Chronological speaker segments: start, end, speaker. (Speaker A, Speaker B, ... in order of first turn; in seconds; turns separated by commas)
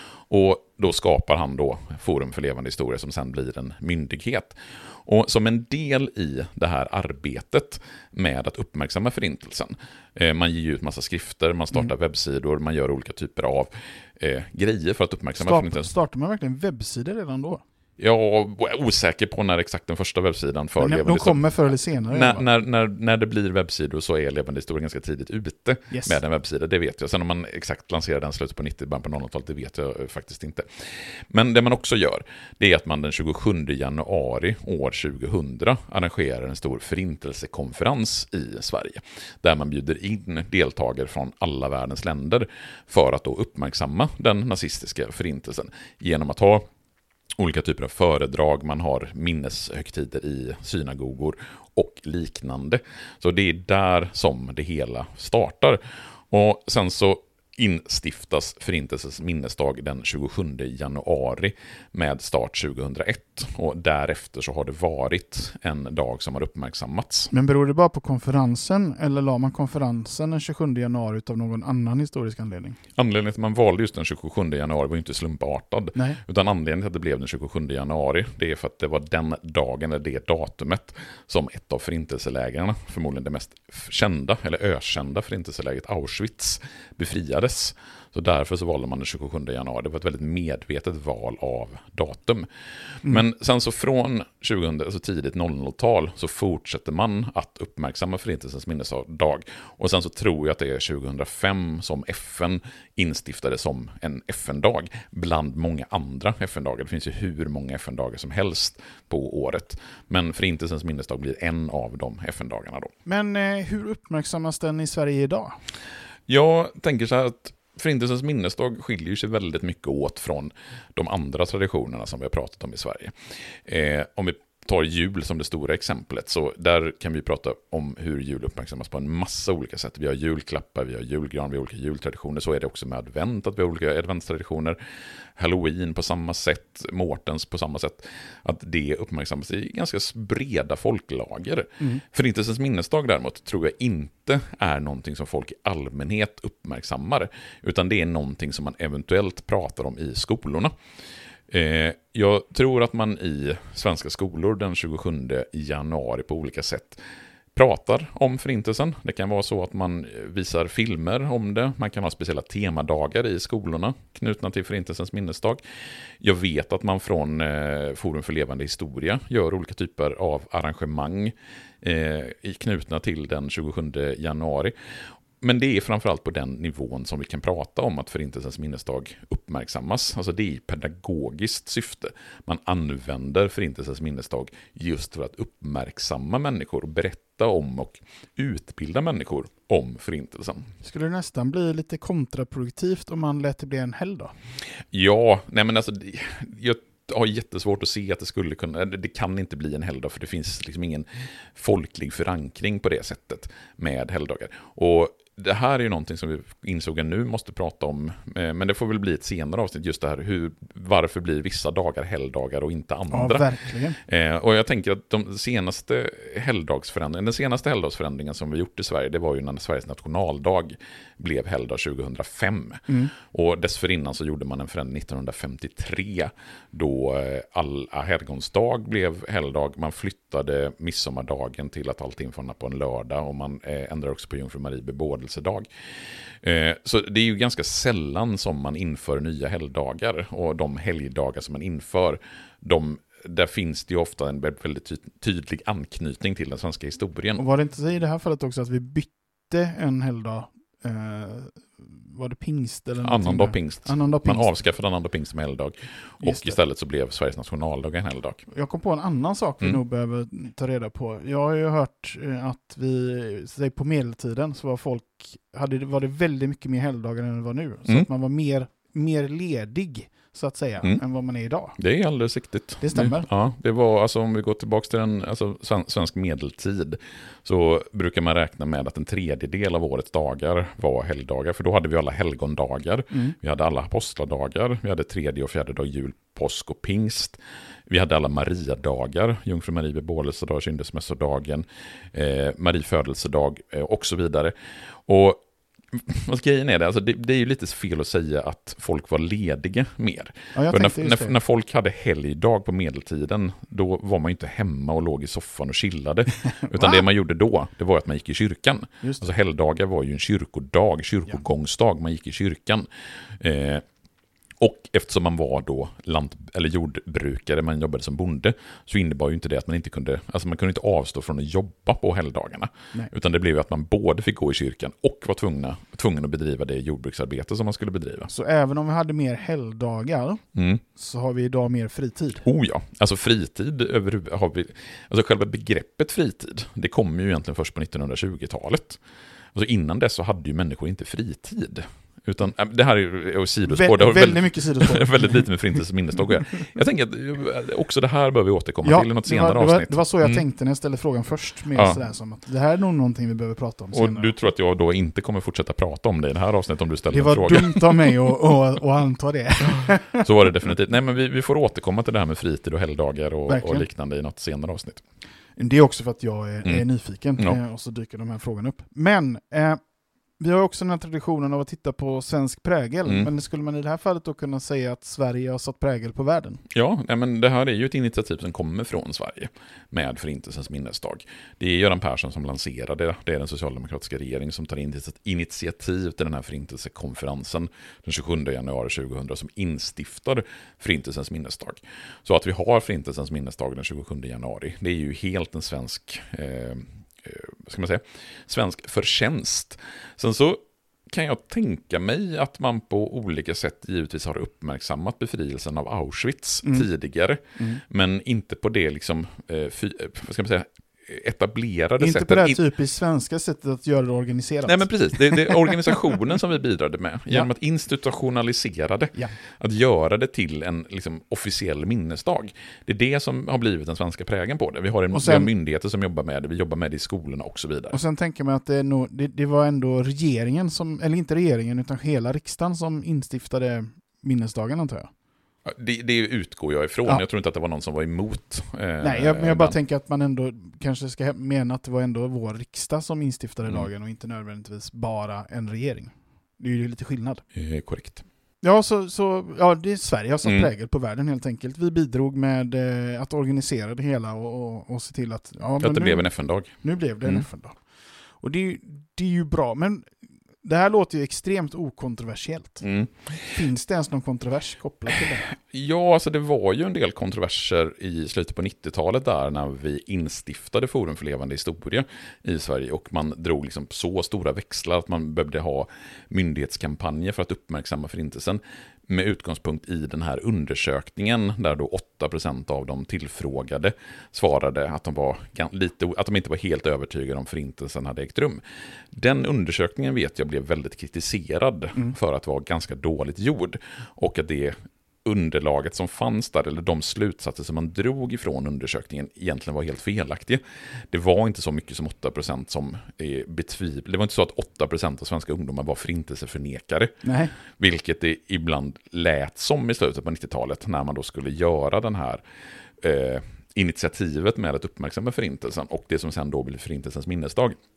Speaker A: 0.3-15.9, Speaker B: 15.3-17.6, Speaker A: 18.0-30.7, Speaker B: 20.8-22.5, Speaker B: 25.9-26.2, Speaker A: 31.3-46.7, Speaker A: 47.4-67.3, Speaker B: 67.3-72.8, Speaker A: 73.0-92.5, Speaker B: 76.0-76.2, Speaker A: 93.0-112.9, Speaker B: 113.0-115.6, Speaker A: 116.3-123.1, Speaker A: 123.7-134.8, Speaker A: 135.4-150.7, Speaker A: 151.5-157.0, Speaker A: 157.6-165.6, Speaker A: 166.2-174.7, Speaker A: 175.4-190.7, Speaker B: 190.8-194.3, Speaker A: 194.9-235.7, Speaker B: 213.1-214.0, Speaker B: 222.9-223.1, Speaker A: 236.4-247.4, Speaker B: 247.4-254.5, Speaker A: 253.0-258.4, Speaker B: 256.2-256.6, Speaker B: 258.5-271.8, Speaker A: 271.8-294.5, Speaker B: 272.8-273.3, Speaker A: 295.1-295.4, Speaker A: 295.9-312.9, Speaker B: 300.5-301.4, Speaker B: 309.0-309.3, Speaker A: 313.4-313.8, Speaker A: 314.6-328.3, Speaker B: 328.3-332.4, Speaker A: 330.6-330.8, Speaker A: 332.4-339.0, Speaker A: 339.5-350.4, Speaker B: 343.7-345.5, Speaker B: 348.8-354.4, Speaker A: 351.7-352.0, Speaker A: 353.9-358.3, Speaker B: 357.1-360.3, Speaker A: 359.6-365.0, Speaker B: 363.5-363.9, Speaker B: 365.6-369.8, Speaker B: 370.4-376.6, Speaker A: 373.1-373.3, Speaker A: 376.7-412.6, Speaker B: 406.6-406.9, Speaker B: 407.6-407.8, Speaker B: 412.0-415.7, Speaker A: 414.6-428.0, Speaker B: 425.1-425.5, Speaker B: 427.9-435.1, Speaker A: 435.7-439.8, Speaker B: 439.0-447.4, Speaker A: 447.6-448.2, Speaker B: 448.6-457.8, Speaker A: 450.4-450.7, Speaker A: 455.8-457.5, Speaker B: 458.4-460.1, Speaker B: 460.6-462.9, Speaker A: 462.8-463.5, Speaker B: 463.5-465.5, Speaker A: 465.6-488.6, Speaker A: 489.1-512.4, Speaker B: 507.2-507.6, Speaker A: 513.0-517.8